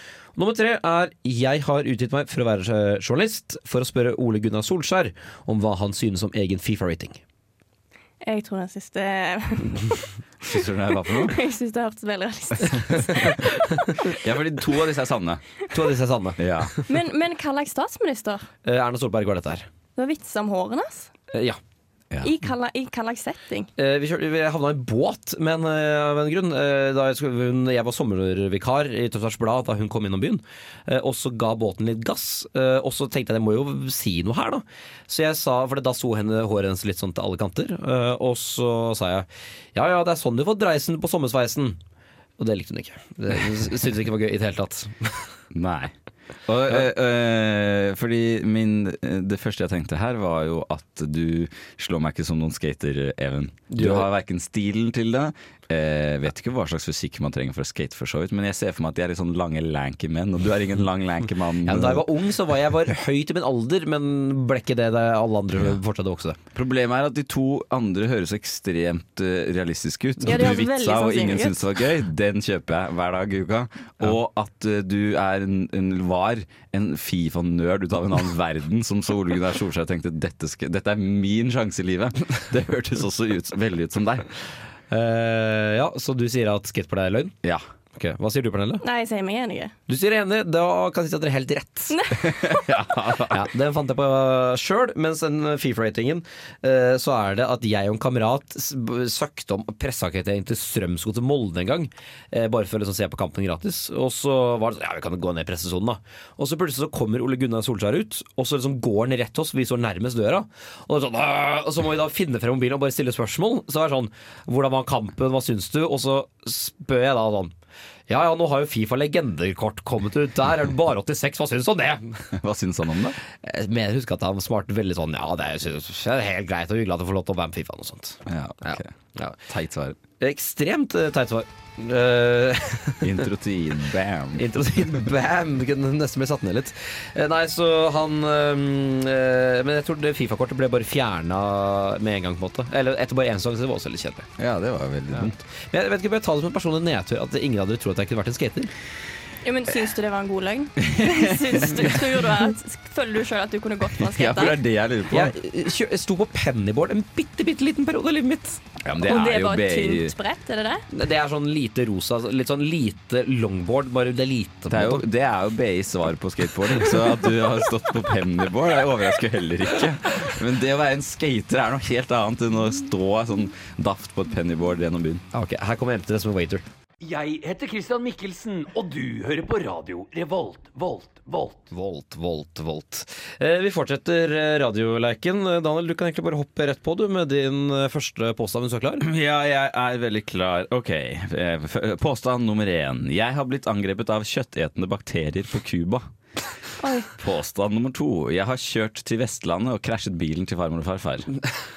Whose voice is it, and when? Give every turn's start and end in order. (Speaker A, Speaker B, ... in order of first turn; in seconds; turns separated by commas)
Speaker A: 0.3-7.2, Speaker B: 8.2-10.0, Speaker C: 10.4-11.4, Speaker B: 11.1-13.5, Speaker C: 14.2-15.4, Speaker A: 15.7-16.8, Speaker C: 16.4-16.7, Speaker B: 16.9-18.5, Speaker A: 18.6-19.7, Speaker B: 19.9-21.1, Speaker A: 21.3-21.6, Speaker B: 22.2-23.7, Speaker A: 23.8-41.8, Speaker A: 42.4-45.3, Speaker C: 45.5-45.9, Speaker C: 46.5-62.0, Speaker A: 53.7-54.1, Speaker A: 61.6-66.4, Speaker C: 66.5-84.3, Speaker B: 70.2-71.6, Speaker A: 84.9-87.3, Speaker A: 87.9-88.8, Speaker B: 88.8-89.7, Speaker A: 89.9-92.0, Speaker B: 91.9-92.5, Speaker C: 92.2-93.4, Speaker A: 93.3-117.5, Speaker A: 118.1-122.3, Speaker C: 122.3-123.2, Speaker A: 123.4-129.4, Speaker C: 128.2-130.0, Speaker A: 130.2-133.1, Speaker C: 133.0-134.5, Speaker A: 134.4-144.3, Speaker C: 144.4-145.4, Speaker A: 145.1-148.7, Speaker B: 149.4-154.6, Speaker C: 150.8-151.8, Speaker C: 154.0-155.3, Speaker A: 155.1-158.6, Speaker C: 158.8-160.1, Speaker B: 159.0-160.8, Speaker A: 160.9-165.0, Speaker C: 164.7-175.2, Speaker A: 175.3-176.6, Speaker D: 177.0-181.6, Speaker A: 181.7-189.1, Speaker C: 189.0-196.1, Speaker B: 196.8-197.1, Speaker C: 197.2-201.3